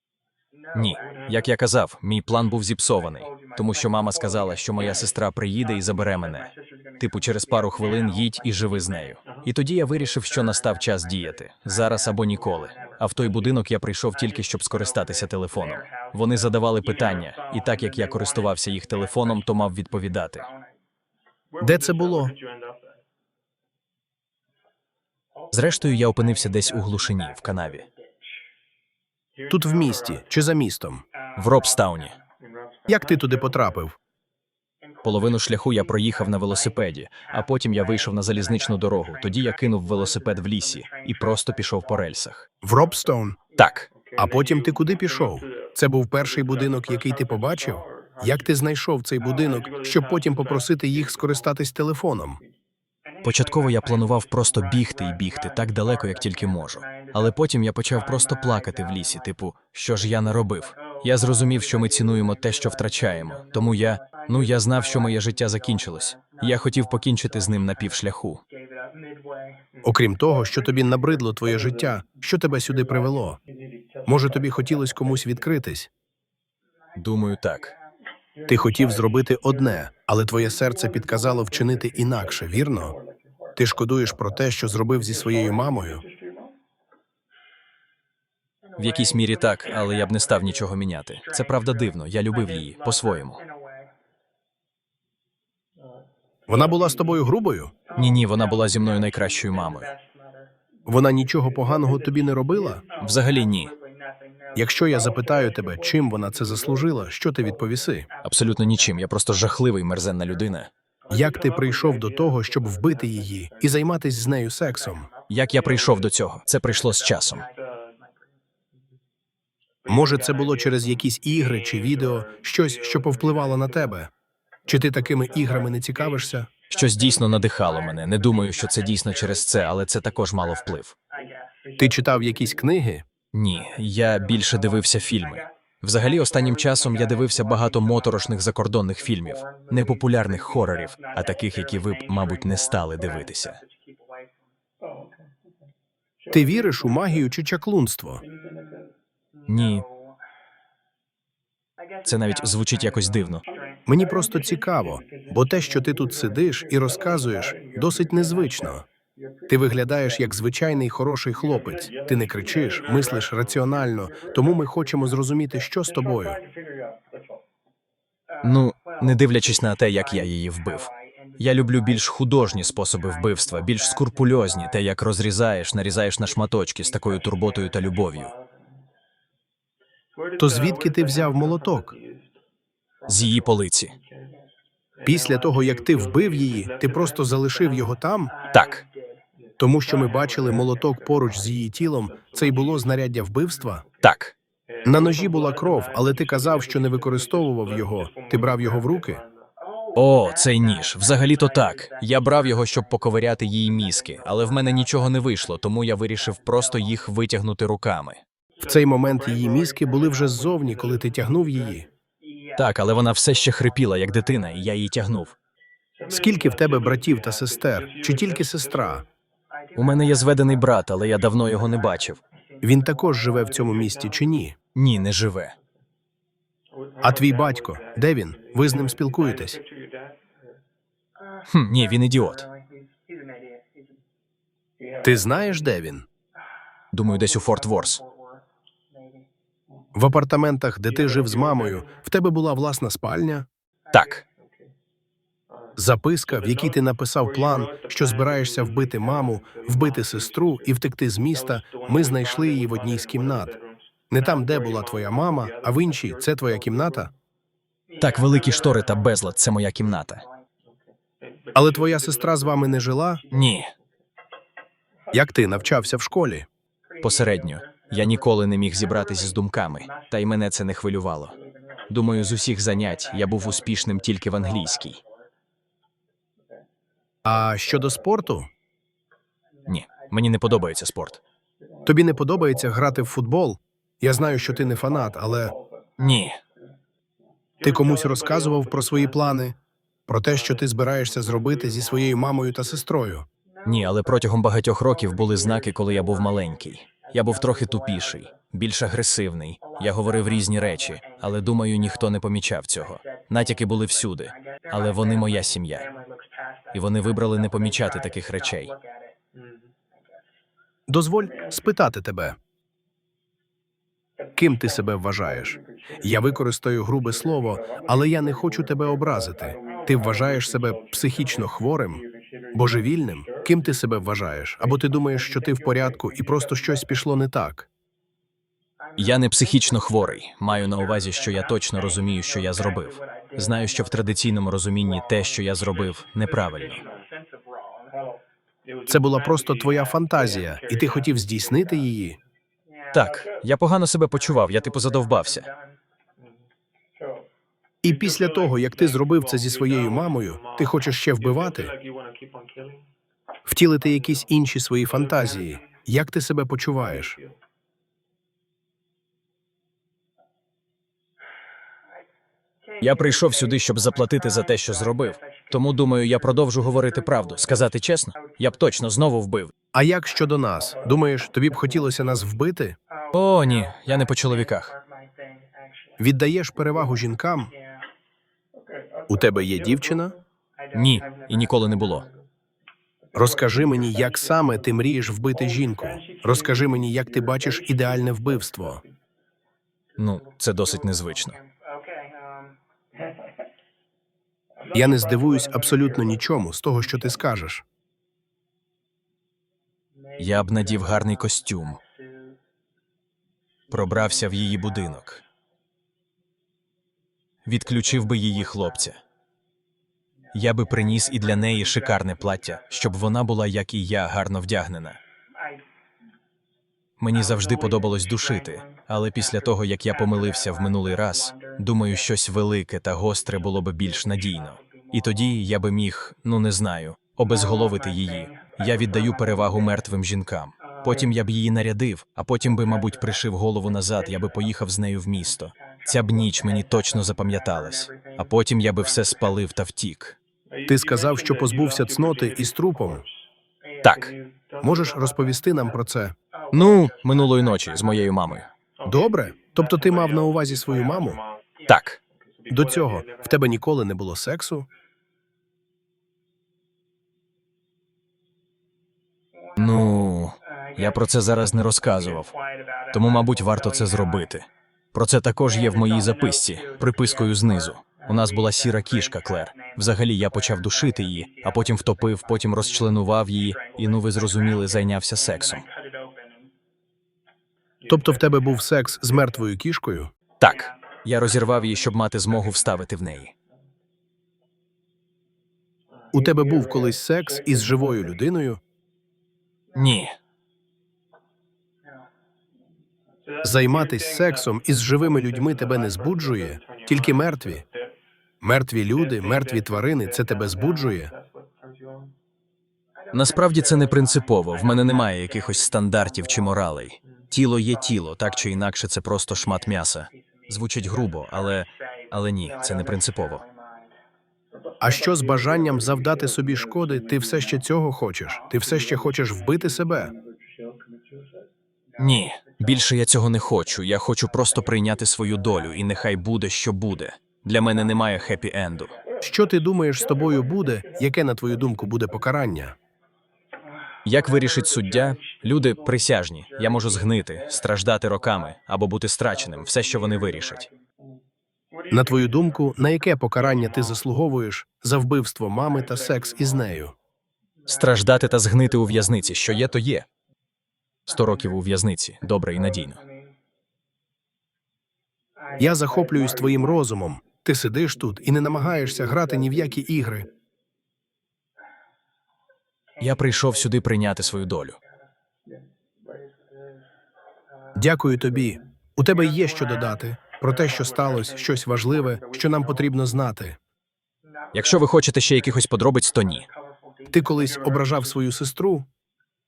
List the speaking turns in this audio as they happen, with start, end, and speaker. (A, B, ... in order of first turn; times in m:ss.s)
0:00.7-0:20.5 A
0:21.6-0:22.4 B
0:25.5-0:27.9 A
0:29.5-0:31.0 B
0:31.4-0:32.2 A
0:32.9-0:34.0 B
0:35.0-0:42.5 A
0:42.6-0:43.4 B
0:43.6-0:43.9 A
0:44.1-0:52.4 B
0:53.2-1:08.4 A
1:09.8-1:13.4 B
1:14.1-1:15.9 B
1:17.0-1:17.8 A
1:18.5-1:23.0 B
1:23.6-1:26.0 B
1:28.8-1:33.4 A
1:36.5-1:37.8 B
1:38.0-1:40.0 A
1:40.9-1:42.8 B
1:43.0-1:43.8 A
1:44.6-1:48.1 B
1:48.2-1:50.7 A
1:51.1-1:55.1 B
1:55.3-1:57.5 A
1:59.9-2:04.1 B
2:04.7-2:06.5 B
2:06.7-2:11.0 A
2:11.8-2:13.0 B
2:13.3-2:23.6 A
2:26.3-2:28.2 B
2:29.5-2:29.9 A
2:32.0-2:33.4 A
2:33.9-2:38.9 B
2:39.5-2:46.4 B
2:48.4-2:58.3 A
3:00.4-3:02.0 B
3:03.1-3:04.0 A
3:05.0-3:08.4 B
3:08.5-3:08.8 A
3:09.6-3:13.8 B
3:14.0-3:14.4 A
3:14.8-3:19.2 B
3:20.0-3:28.2 A
3:28.6-3:31.9 B
3:32.6-3:35.4 A
3:36.1-3:39.1 B
3:39.8-3:42.2 A
3:42.6-3:44.6 B
3:44.8-3:45.6 A
3:47.0-3:49.6 B
3:51.5-3:52.5 A
3:55.0-3:56.1 B
3:56.9-3:58.0 A
4:00.0-4:03.5 B
4:03.9-4:04.2 A
4:05.8-4:13.6 B
4:14.1-4:17.1 B
4:18.0-4:20.2 A
4:21.5-4:23.2 B
4:23.3-4:23.7 A
4:25.1-4:26.5 B
4:27.0-4:31.4 A
4:31.9-4:35.0 A
4:37.2-4:38.5 B
4:39.7-4:41.2 A
4:41.9-4:45.6 B
4:46.0-4:46.4 A
4:47.6-4:49.6 B
4:50.1-4:53.3 B
4:53.6-5:05.9 A
5:06.7-5:08.8 A
5:10.9-5:12.4 B
5:14.4-5:27.7 B
5:29.0-5:36.8 A
5:38.9-5:42.2 B
5:42.9-5:45.5 A
5:47.8-5:51.8 B
5:53.5-5:57.2 B
6:02.8-6:09.5 A
6:09.7-6:12.8 B
6:13.1-6:14.8 A
6:16.0-6:17.5 B
6:19.1-6:20.2 B
6:20.7-6:22.1 A
6:23.1-6:28.8 B
6:30.0-6:31.4 A
6:34.7-6:37.6 B
6:40.2-6:41.8 A
6:43.7-6:45.2 A
6:47.5-6:49.0 A
6:50.3-6:55.0 A
6:57.0-7:20.2 A
7:20.7-7:23.0 B
7:23.8-7:24.2 A
7:24.6-7:26.2 B
7:26.5-7:28.5 A
7:28.8-7:31.2 B
7:31.7-7:32.0 A
7:32.5-7:34.7 B
7:39.6-7:42.4 A
7:42.9-7:55.7 A
7:57.9-8:00.1 B
8:00.4-8:03.3 A
8:06.1-8:08.6 B
8:09.7-8:10.2 A
8:13.4-8:17.7 B
8:18.4-8:21.1 B
8:23.1-8:33.4 A
8:34.8-8:40.2 B
8:42.0-8:49.0 A
8:49.2-8:52.8 B
8:54.0-9:00.7 A
9:01.9-9:07.0 B
9:07.7-9:10.1 A
9:11.1-9:13.0 A
9:15.6-9:20.3 B
9:23.0-9:24.8 A
9:27.8-9:33.6 B
9:34.5-9:36.5 A
9:37.1-9:38.9 B